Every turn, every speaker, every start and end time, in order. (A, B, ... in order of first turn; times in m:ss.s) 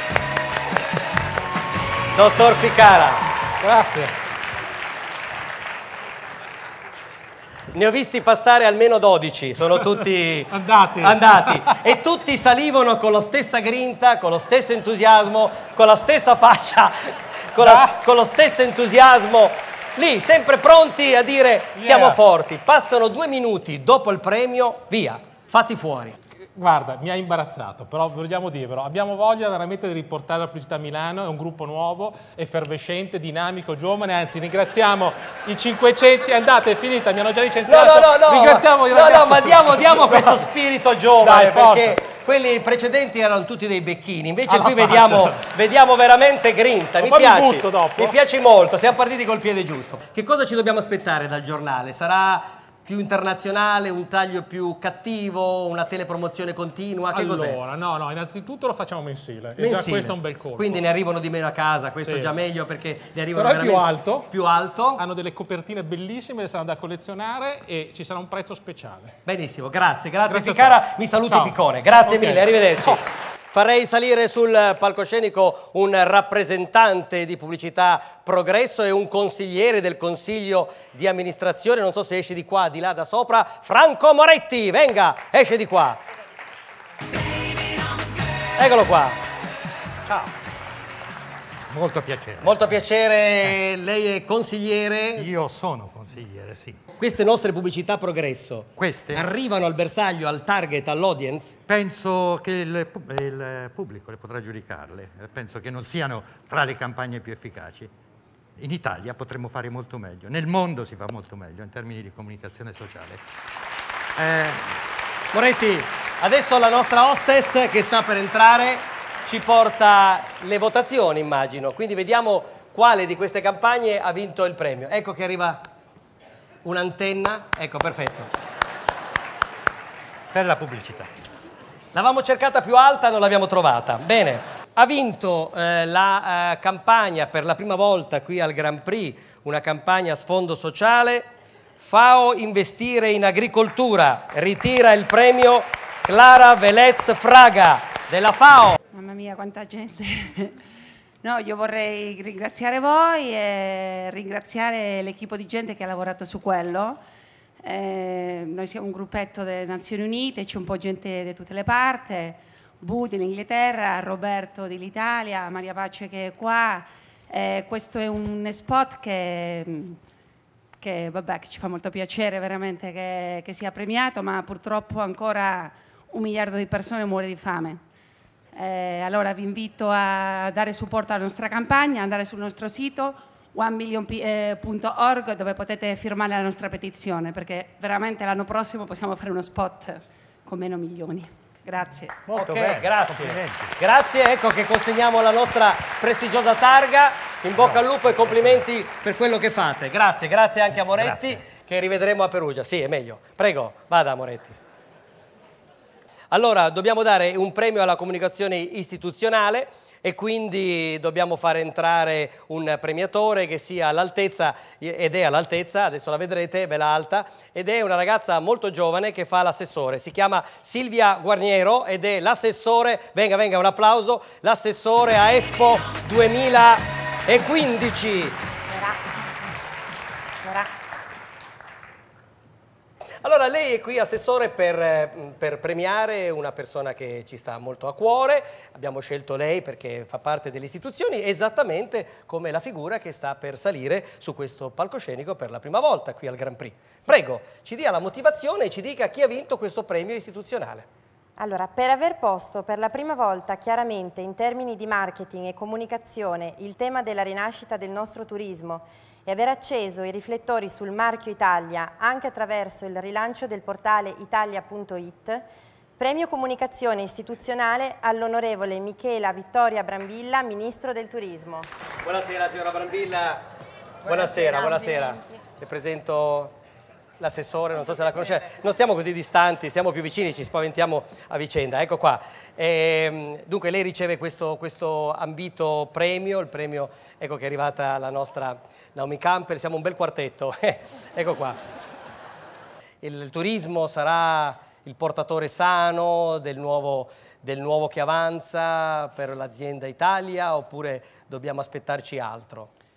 0:02.1-0:03.2 A
0:03.6-0:04.1 B
0:07.7-0:26.2 A
0:10.5-0:11.8 B
0:17.6-0:17.9 B
0:21.8-0:22.2 B
0:26.5-0:40.5 B
0:37.7-0:57.6 A
0:41.2-0:42.0 B
0:44.5-0:45.4 B
0:47.0-0:48.2 B
0:57.1-1:00.8 B
0:59.6-1:05.0 A
1:02.0-1:02.3 B
1:03.3-1:04.3 B
1:05.0-1:09.2 B
1:09.2-1:26.0 A
1:10.3-1:13.0 B
1:28.6-1:29.2 A
1:31.7-1:32.8 C
1:32.4-1:35.3 A
1:35.1-1:36.8 C
1:37.0-1:41.6 A
1:38.8-1:39.3 C
1:41.7-1:47.9 C
1:48.6-1:53.2 C
1:54.2-1:54.7 C
1:55.3-2:05.7 A
2:06.6-2:08.3 A
2:10.3-2:11.1 C
2:11.9-2:21.3 A
2:21.8-2:28.8 A
2:28.9-2:30.6 D
2:31.2-2:37.0 D
2:37.6-2:50.0 D
2:50.8-2:57.8 D
2:58.5-3:12.2 D
3:12.2-3:13.7 C
3:12.3-3:24.6 A
3:17.5-3:18.6 C
3:20.9-3:21.4 C
3:26.3-3:48.4 A
3:48.7-3:49.0 E
3:50.4-3:50.7 E
3:53.2-4:10.9 A
4:11.4-4:25.5 E
4:26.0-4:31.7 E
4:32.0-4:33.4 A
4:34.0-4:36.5 A
4:37.2-4:51.6 A
4:53.0-5:02.7 A